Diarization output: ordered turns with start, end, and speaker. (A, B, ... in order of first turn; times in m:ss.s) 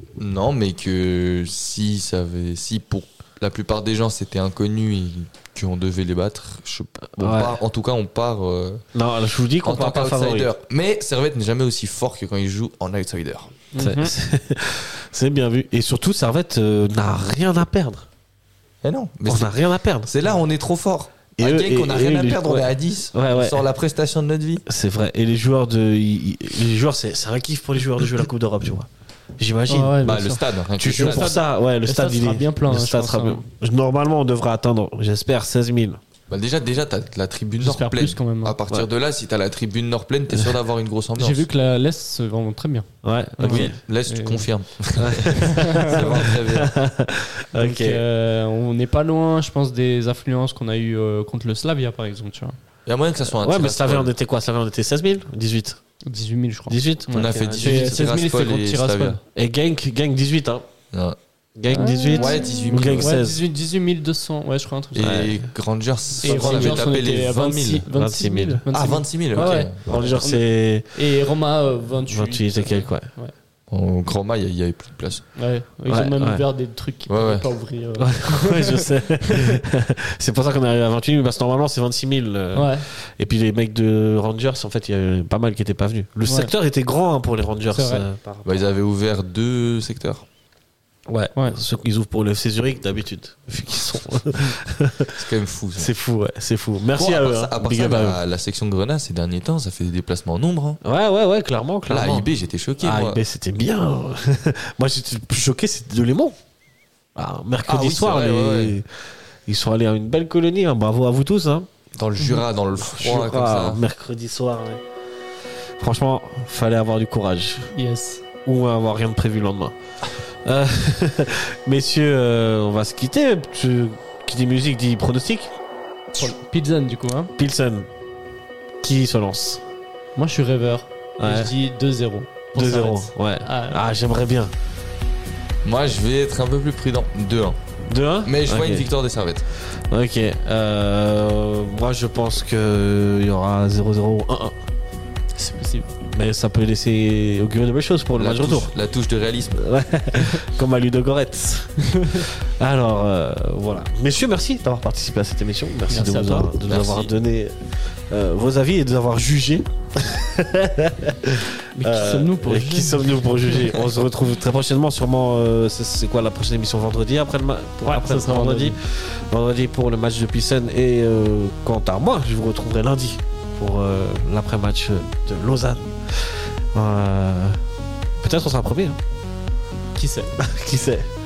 0:00.2-0:08.8 A
0:07.2-0:07.6 B
0:08.9-0:10.5 B
0:09.6-0:13.5 A
0:13.7-0:14.1 C
0:13.8-0:18.1 B
0:18.8-0:24.6 A
0:19.3-0:20.1 B
0:21.4-0:23.6 B
0:24.7-0:30.0 B
0:29.7-0:33.4 C
0:30.0-0:31.4 A
0:30.8-0:36.0 B
0:36.3-0:41.4 A
0:37.6-0:38.6 C
0:41.2-0:42.9 C
0:43.0-0:43.8 B
0:43.4-0:44.5 C
0:43.4-0:46.7 A
0:45.0-0:48.0 B
0:45.3-0:46.1 C
0:47.6-0:52.6 C
0:52.8-0:54.1 A
0:53.4-0:55.8 B
0:56.0-0:59.2 C
0:56.7-0:58.1 B
0:57.1-0:59.2 A
0:59.3-1:00.7 B
1:00.9-1:01.2 A
1:01.6-1:03.4 B
1:01.7-1:05.4 C
1:02.1-1:03.2 A
1:04.9-1:07.8 A
1:05.0-1:05.4 B
1:06.2-1:13.3 C
1:06.2-1:06.9 B
1:07.9-1:08.6 B
1:08.7-1:10.0 A
1:09.3-1:11.0 B
1:12.1-1:13.1 B
1:13.7-1:15.2 A
1:15.4-1:19.6 C
1:15.9-1:16.4 B
1:17.1-1:17.5 A
1:18.0-1:28.6 B
1:22.5-1:22.8 C
1:26.2-1:26.5 C
1:27.7-1:28.0 C
1:28.4-1:30.2 A
1:31.1-1:35.1 B
1:35.1-1:35.9 A
1:35.7-1:38.2 B
1:36.9-1:40.8 A
1:40.8-1:42.3 B
1:41.9-1:43.2 A
1:42.8-1:46.4 B
1:47.2-1:48.9 B
1:47.6-1:48.8 A
1:49.4-1:51.7 B
1:51.9-1:53.8 A
1:52.2-1:52.4 C
1:52.8-1:54.8 B
1:55.8-1:57.7 B
1:57.7-1:58.2 C
1:58.4-2:05.5 B
2:06.1-2:07.3 C
2:07.4-2:07.9 B
2:08.8-2:09.6 B
2:10.2-2:13.8 C
2:11.2-2:11.5 B
2:12.5-2:14.5 B
2:15.6-2:17.6 A
2:17.9-2:18.9 B
2:18.2-2:19.4 A
2:19.7-2:24.5 B
2:25.3-2:26.0 C
2:26.1-2:28.7 B
2:28.1-2:29.6 A
2:29.6-2:57.6 B
2:31.9-2:32.3 C
2:35.9-2:36.5 C
2:36.6-2:37.1 A
2:41.7-2:43.7 C
2:47.8-2:48.8 C
2:58.2-2:59.0 B
3:00.0-3:00.3 C
3:00.4-3:01.1 B